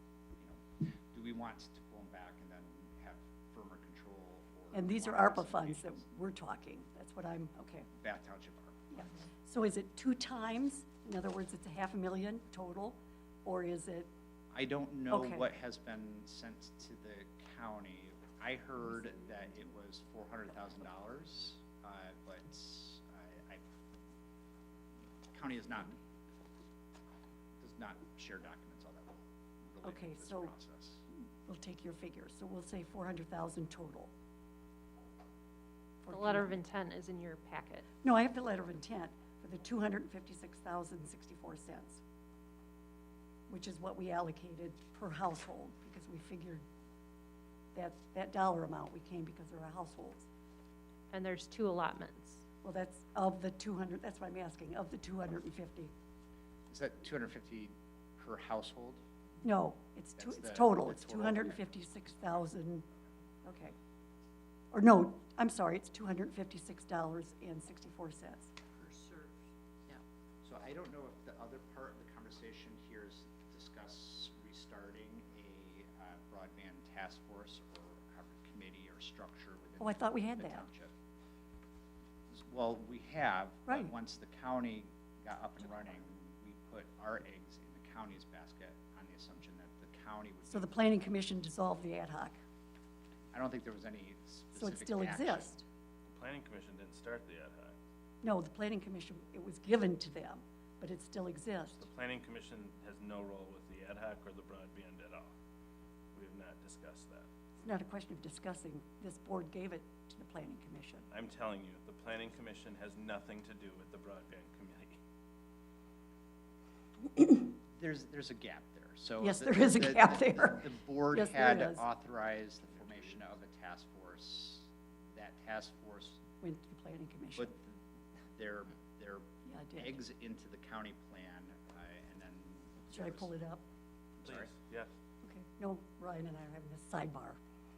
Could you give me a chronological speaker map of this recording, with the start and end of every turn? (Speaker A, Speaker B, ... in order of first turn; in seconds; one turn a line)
Speaker A: 0.4-6.0
Speaker B: 4.7-7.9
Speaker A: 7.9-8.9
Speaker B: 8.9-14.1
Speaker A: 14.5-23.6
Speaker B: 15.1-15.4
Speaker A: 25.3-26.0
Speaker A: 27.6-31.1
Speaker B: 29.8-30.5
Speaker B: 31.5-34.1
Speaker B: 36.0-36.6
Speaker C: 36.1-37.9
Speaker B: 38.0-42.0
Speaker B: 43.5-46.6
Speaker B: 47.7-50.3
Speaker C: 51.1-52.4
Speaker B: 52.6-55.9
Speaker A: 56.7-59.0
Speaker B: 59.4-62.8
Speaker A: 60.2-61.7
Speaker B: 63.5-63.8
Speaker B: 64.7-68.5
Speaker C: 68.8-69.4
Speaker A: 70.4-80.9
Speaker B: 79.8-80.7
Speaker A: 82.3-91.1
Speaker B: 83.7-83.9
Speaker B: 90.5-92.4
Speaker A: 93.3-95.6
Speaker B: 94.5-95.6
Speaker D: 96.1-97.8
Speaker B: 98.2-101.8
Speaker D: 101.8-105.3
Speaker D: 106.1-107.3
Speaker B: 107.6-111.1
Speaker D: 111.2-115.0
Speaker A: 117.7-126.2
Speaker B: 119.2-121.8
Speaker B: 126.4-127.5
Speaker A: 127.4-127.8
Speaker A: 128.3-133.3
Speaker B: 129.4-130.0
Speaker B: 132.9-133.6
Speaker D: 134.2-134.9
Speaker A: 134.2-134.5
Speaker B: 135.2-137.4